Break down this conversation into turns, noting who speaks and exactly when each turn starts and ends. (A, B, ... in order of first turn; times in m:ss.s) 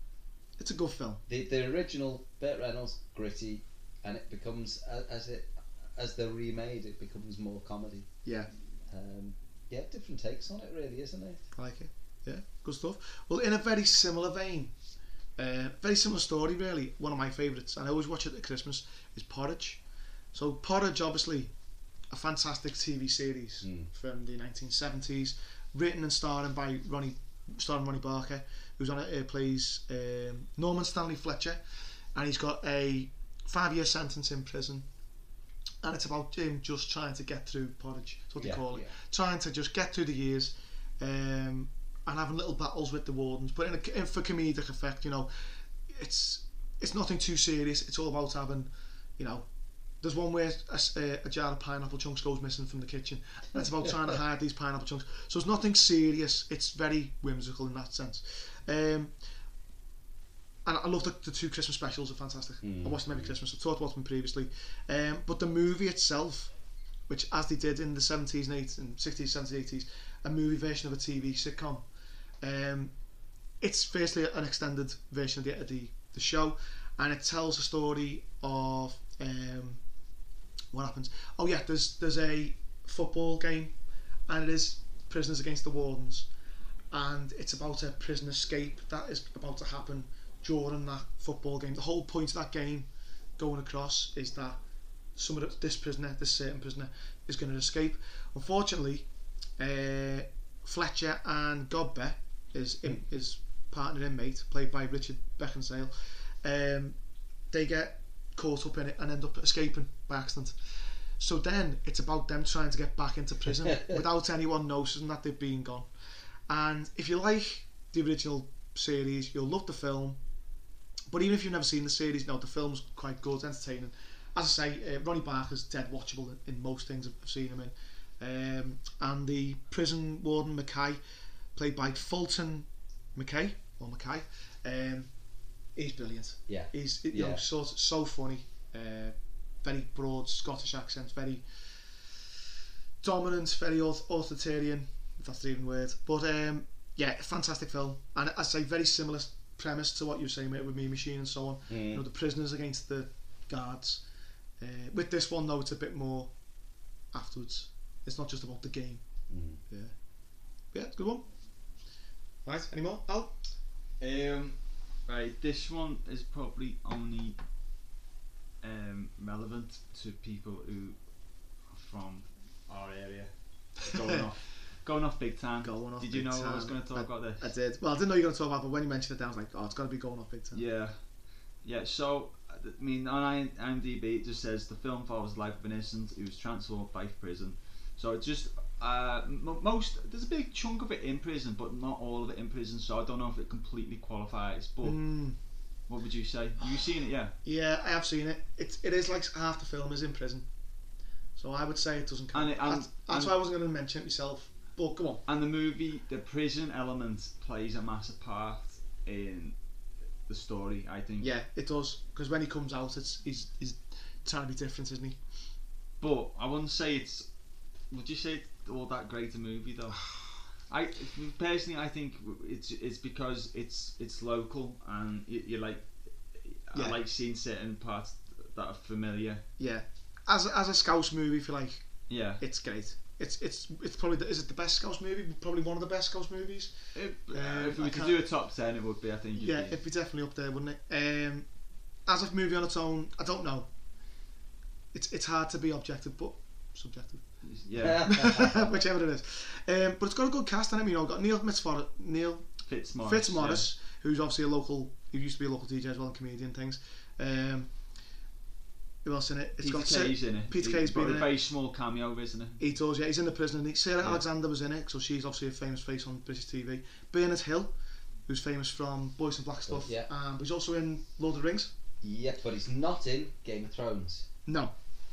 0:00.6-0:01.2 A
0:01.3-0:08.1 B
0:08.2-0:08.5 A
0:08.9-0:11.4 B
0:11.5-0:14.7 A
0:15.4-0:19.8 A
0:20.3-0:21.5 A
0:22.1-0:34.8 A
0:23.6-0:23.9 B
0:35.8-0:49.4 A
0:38.4-0:38.9 B
0:50.0-0:59.1 A
1:00.6-1:06.5 A
1:02.6-1:03.3 B
1:07.1-1:11.8 A
1:12.4-1:12.9 A
1:13.6-1:19.8 A
1:20.7-1:23.7 A
1:24.3-1:26.3 A
1:26.9-1:34.6 A
1:35.2-1:47.0 A
1:47.5-1:55.9 A
1:56.5-2:00.2 A
2:01.1-2:11.0 A
2:11.5-2:15.1 A
2:15.8-2:22.3 A
2:16.5-2:17.4 B
2:23.0-2:34.0 A
2:31.7-2:32.0 B
2:34.6-2:36.3 A
2:37.1-2:39.0 A
2:39.3-2:39.6 B
2:39.7-2:39.9 A
2:40.7-2:41.2 A
2:42.4-2:43.3 A
2:44.0-2:44.6 C
2:45.1-2:47.4 C
2:48.6-2:51.0 C
2:51.7-2:57.5 C
2:55.6-3:00.6 A
3:00.5-3:01.0 C
3:01.6-3:15.0 C
3:14.8-3:15.4 A
3:15.9-3:17.3 C
3:16.6-3:16.9 A
3:17.4-3:20.4 A
3:21.4-3:25.2 A
3:22.3-3:23.3 C
3:25.3-3:29.6 C
3:30.3-3:31.3 C
3:31.2-3:35.2 A
3:36.0-3:37.3 C
3:37.9-3:40.2 C
3:40.7-3:49.4 C
3:46.7-3:47.0 A
3:49.6-3:51.9 A
3:52.1-3:52.4 C
3:52.4-3:56.7 A
3:56.9-3:59.8 C
3:57.3-3:58.2 A
3:59.4-4:01.5 A
4:02.0-4:03.7 A
4:04.9-4:07.2 A
4:07.4-4:08.4 C
4:07.8-4:08.8 B
4:08.0-4:12.5 A
4:12.7-4:13.7 C
4:13.0-4:17.7 A
4:19.0-4:21.3 A
4:19.6-4:22.6 C
4:22.6-4:27.7 A
4:28.3-4:31.7 A
4:29.7-4:30.1 B
4:32.0-4:34.3 B
4:34.4-4:34.7 A